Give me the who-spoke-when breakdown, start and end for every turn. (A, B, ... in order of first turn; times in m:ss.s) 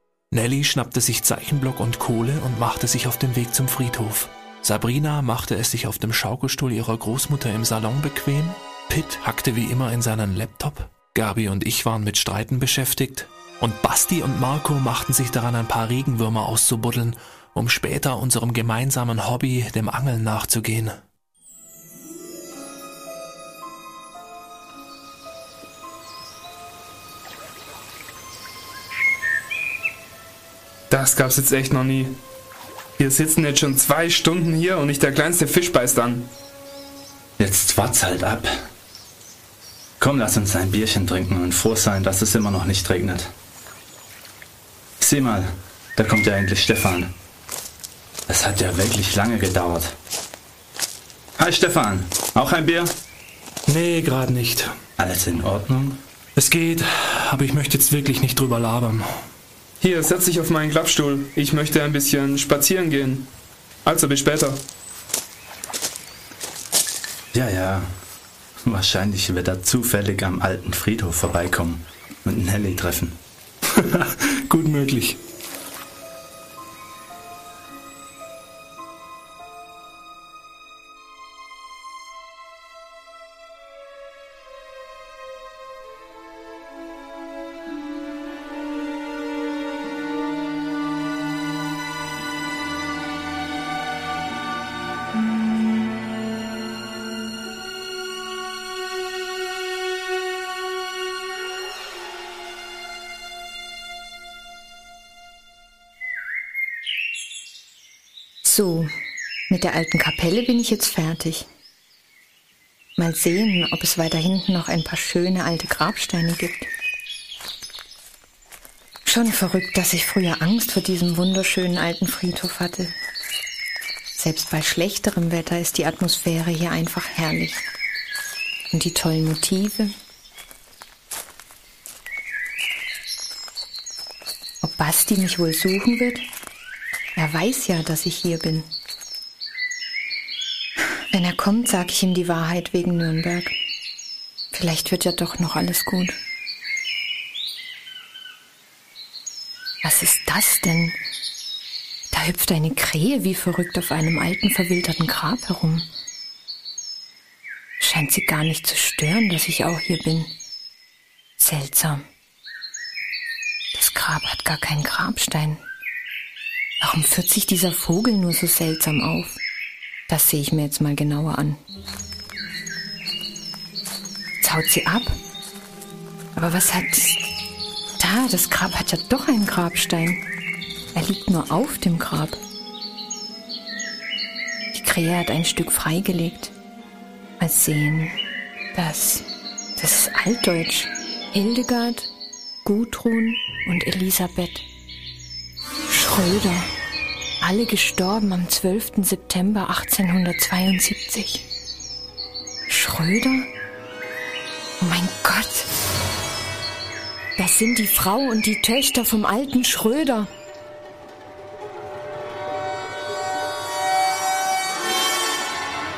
0:00.3-0:21.0 A
0:30.9-0:32.2 B
0:33.0-0:36.3 B
0:37.4-0:38.6 C
0:40.0-0:43.3 C
0:45.0-0:47.1 C
0:48.3-0:50.0 C
0:51.4-0:52.9 C
0:53.7-0:54.8 A
0:55.0-0:56.0 C
0:56.4-0:59.2 A
0:59.8-1:03.3 B
1:03.8-1:04.6 B
1:07.3-1:07.9 C
1:08.6-1:13.2 C
1:13.7-1:15.2 A
1:48.4-1:48.9 D
1:49.5-1:51.5 D
1:53.0-1:56.7 D
1:59.1-2:03.0 D
2:04.1-2:07.6 D
2:08.7-2:09.9 D
2:14.6-2:16.3 D
2:17.2-2:18.7 D
2:21.1-2:23.6 D
2:24.5-2:26.2 D
2:29.8-2:31.0 D
2:32.1-2:35.9 D
2:37.8-2:40.3 D
2:41.4-2:42.0 D
2:43.7-2:45.6 D
2:46.8-2:49.4 D
2:50.1-2:51.6 D
2:54.4-2:55.2 D
2:56.4-2:57.2 D
2:58.0-3:00.2 D
3:00.9-3:02.4 D
3:04.7-3:06.5 D
3:07.4-3:08.1 D
3:08.7-3:12.1 D
3:12.6-3:14.6 D
3:15.9-3:16.7 D
3:17.4-3:21.4 D
3:22.7-3:23.5 D
3:24.8-3:25.7 D
3:27.4-3:30.3 D